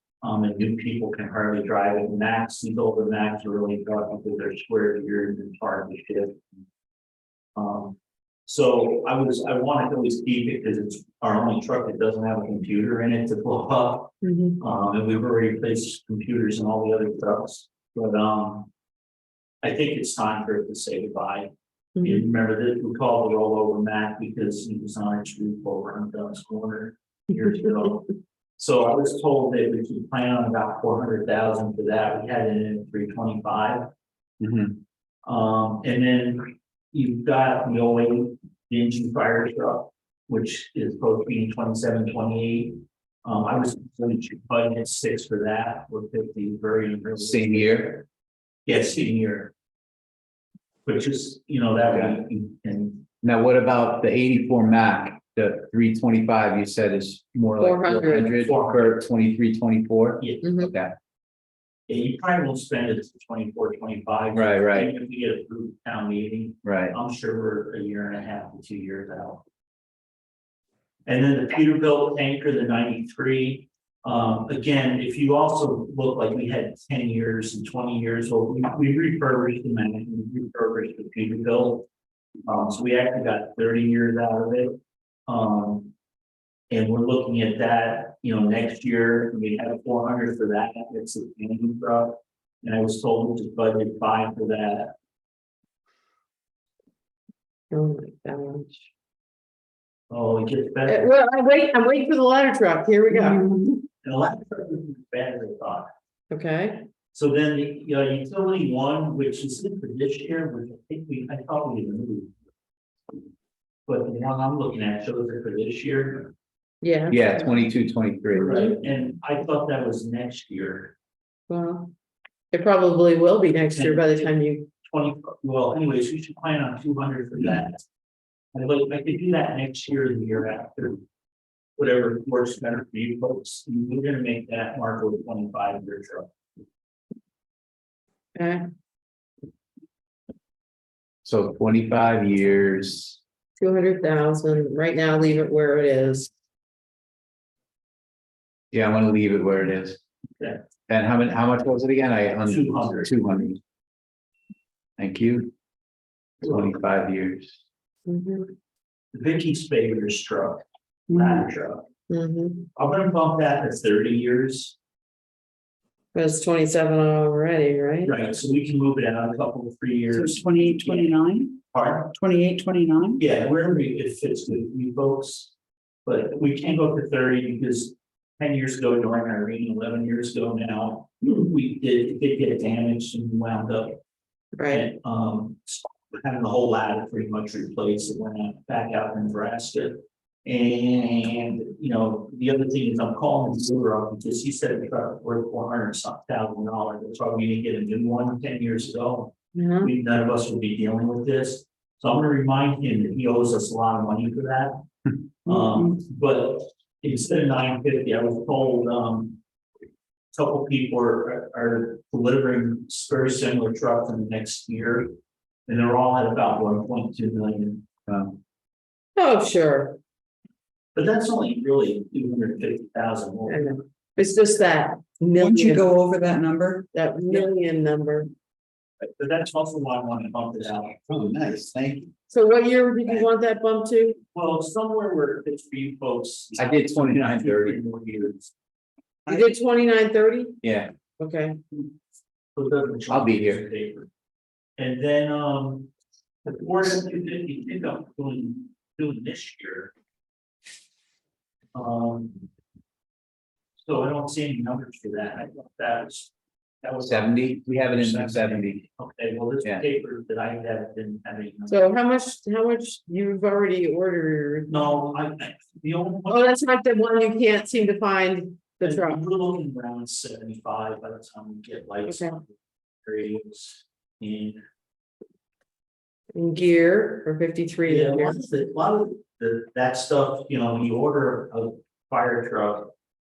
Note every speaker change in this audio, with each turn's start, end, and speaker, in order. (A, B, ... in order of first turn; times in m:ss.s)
0:00.2-0:06.4 A
0:07.6-0:18.7 A
0:14.2-0:14.6 B
0:19.6-0:21.5 A
0:22.0-0:22.2 B
0:22.0-0:33.9 A
0:34.4-0:34.8 C
0:35.2-0:48.0 A
0:47.2-0:48.0 C
0:48.6-0:49.5 A
0:50.8-0:53.0 A
0:53.2-1:00.9 C
0:57.6-0:58.4 B
0:58.3-0:59.0 A
1:00.2-1:00.4 A
1:00.4-1:00.7 B
1:01.9-1:09.4 A
1:04.3-1:04.9 C
1:06.6-1:06.9 C
1:11.1-1:21.9 A
1:22.4-1:25.9 A
1:26.7-1:34.9 A
1:37.7-1:38.8 B
1:40.1-1:41.1 A
1:40.9-1:43.4 B
1:43.1-1:43.8 D
1:44.0-1:45.9 A
1:46.3-1:46.9 B
1:47.1-1:52.3 A
1:53.9-1:56.3 A
1:56.8-1:57.5 B
1:57.1-1:58.7 C
1:58.3-2:00.9 A
1:58.4-1:58.7 B
2:01.5-2:01.9 B
2:02.5-2:04.7 B
2:03.7-2:07.8 A
2:08.5-2:11.0 A
2:11.8-2:16.3 A
2:18.4-2:18.6 B
2:21.2-2:23.2 C
2:23.6-2:26.3 B
2:28.7-2:30.0 C
2:30.9-2:33.6 C
2:32.4-2:33.2 A
2:35.0-2:35.5 C
2:36.4-2:37.5 C
2:38.1-2:38.5 B
2:39.1-2:41.8 A
2:41.1-2:41.4 D
2:42.1-2:42.7 B
2:42.8-2:44.8 A
2:46.1-2:48.1 B
2:48.0-2:52.1 A
2:50.1-2:51.6 D
2:52.1-2:53.2 D
2:53.2-2:55.5 A
2:56.0-3:04.0 A
3:04.6-3:04.8 B
3:04.7-3:24.8 A
3:19.5-3:19.9 B
3:25.4-3:29.4 A
3:25.5-3:25.9 D
3:30.3-3:35.1 A
3:35.7-3:37.9 A
3:39.2-3:40.0 B
3:40.9-3:43.7 A
3:43.5-3:45.8 B
3:45.4-3:46.8 D
3:46.9-3:48.3 B
3:49.0-3:51.4 A
3:51.1-3:52.1 C
3:52.3-3:54.2 B
3:54.3-3:58.5 A
3:56.6-3:57.8 C
3:59.2-3:59.6 A
3:59.3-4:00.6 B
4:00.6-4:00.9 C
4:01.2-4:01.6 B
4:02.5-4:04.1 A
4:03.1-4:03.6 C
4:04.8-4:05.9 A
4:06.4-4:09.9 A
4:11.7-4:12.4 A
4:13.8-4:21.9 A
4:17.0-4:18.8 C
4:21.7-4:24.9 B
4:24.7-4:26.5 A
4:26.3-4:29.2 B
4:28.8-4:32.5 A
4:32.0-4:32.3 B
4:33.0-4:34.6 A
4:36.3-4:38.6 B
4:37.9-4:42.9 A